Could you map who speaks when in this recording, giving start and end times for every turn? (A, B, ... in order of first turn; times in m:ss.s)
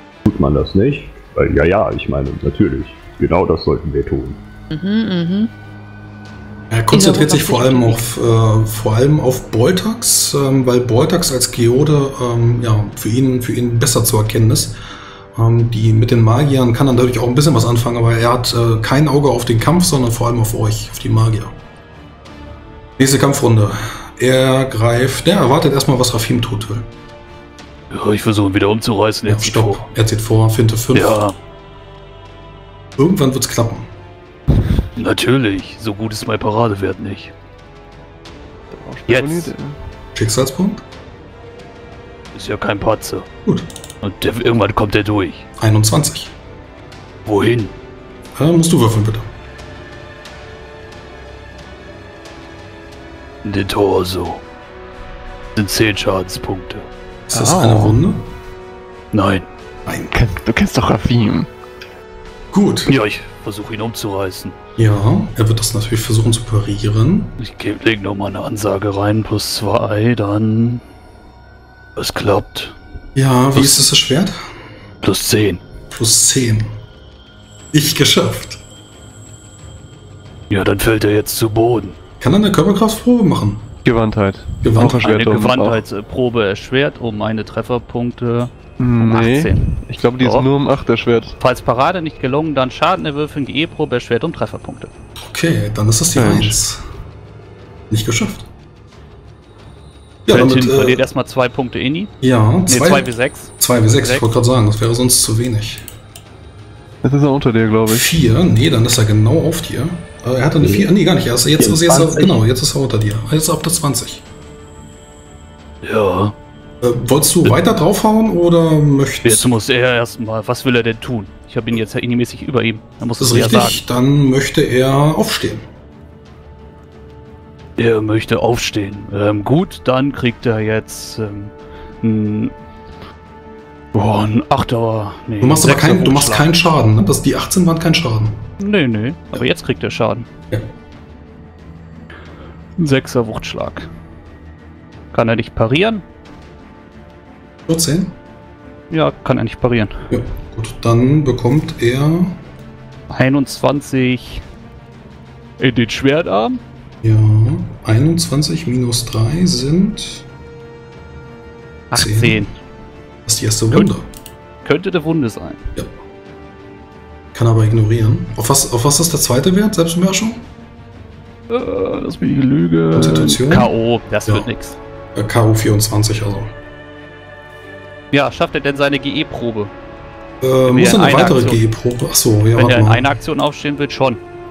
0:00.2-0:04.4 A
0:04.7-0:05.5 B
0:06.7-0:14.8 C
0:06.9-0:08.0 B
0:15.4-0:21.6 C
0:23.0-0:26.9 C
0:27.9-0:29.8 D
0:29.2-0:31.2 C
0:30.9-0:31.4 D
0:33.0-0:33.9 C
0:35.0-0:37.3 D
0:38.7-0:39.8 E
0:39.1-0:39.5 D
0:40.2-0:40.8 C
0:42.3-0:43.3 D
0:44.0-0:45.5 D
0:45.6-0:46.3 C
0:47.3-0:47.7 D
0:48.4-0:49.3 C
0:53.4-0:54.4 D
0:55.6-0:56.9 D
0:57.3-0:58.3 C
0:57.3-0:58.0 E
0:59.1-0:59.5 D
0:59.9-1:00.1 C
1:00.1-1:01.5 E
1:02.5-1:02.9 C
1:02.9-1:04.6 D
1:04.8-1:07.4 C
1:07.4-1:10.8 D
1:12.0-1:12.8 D
1:13.2-1:14.4 C
1:13.5-1:13.8 D
1:15.0-1:15.6 D
1:15.9-1:16.7 C
1:17.7-1:18.6 C
1:20.5-1:22.0 D
1:22.2-1:23.7 C
1:23.8-1:25.8 E
1:24.6-1:25.1 C
1:25.0-1:29.7 D
1:28.8-1:31.4 E
1:30.2-1:30.5 D
1:31.4-1:34.9 D
1:35.2-1:36.8 C
1:36.2-1:36.6 E
1:37.9-1:38.5 C
1:40.3-1:41.0 C
1:40.3-1:42.1 D
1:42.2-1:45.8 C
1:42.7-1:44.3 D
1:47.0-1:48.2 E
1:47.9-1:54.2 C
1:50.6-1:50.9 A
1:51.6-1:52.4 A
1:55.8-1:56.4 D
1:56.8-1:59.5 C
1:59.2-2:03.8 D
2:03.2-2:05.7 C
2:07.8-2:12.5 D
2:13.9-2:16.5 D
2:15.4-2:18.5 C
2:18.6-2:20.3 D
2:22.8-2:23.9 D
2:25.1-2:26.0 D
2:27.7-2:28.1 C
2:28.9-2:30.0 D
2:30.1-2:32.4 C
2:33.1-2:34.4 D
2:35.6-2:36.6 D
2:37.0-2:40.3 C
2:41.9-2:42.5 D
2:41.9-2:42.5 C
2:43.3-2:44.1 C
2:44.6-2:45.6 D
2:47.3-2:50.4 C
2:51.5-2:54.8 D
2:52.9-2:53.7 C
2:54.3-2:54.5 C
2:55.2-2:56.5 C
2:58.1-2:59.7 D
3:00.4-3:03.2 C
3:00.6-3:01.6 D
3:02.6-3:04.2 D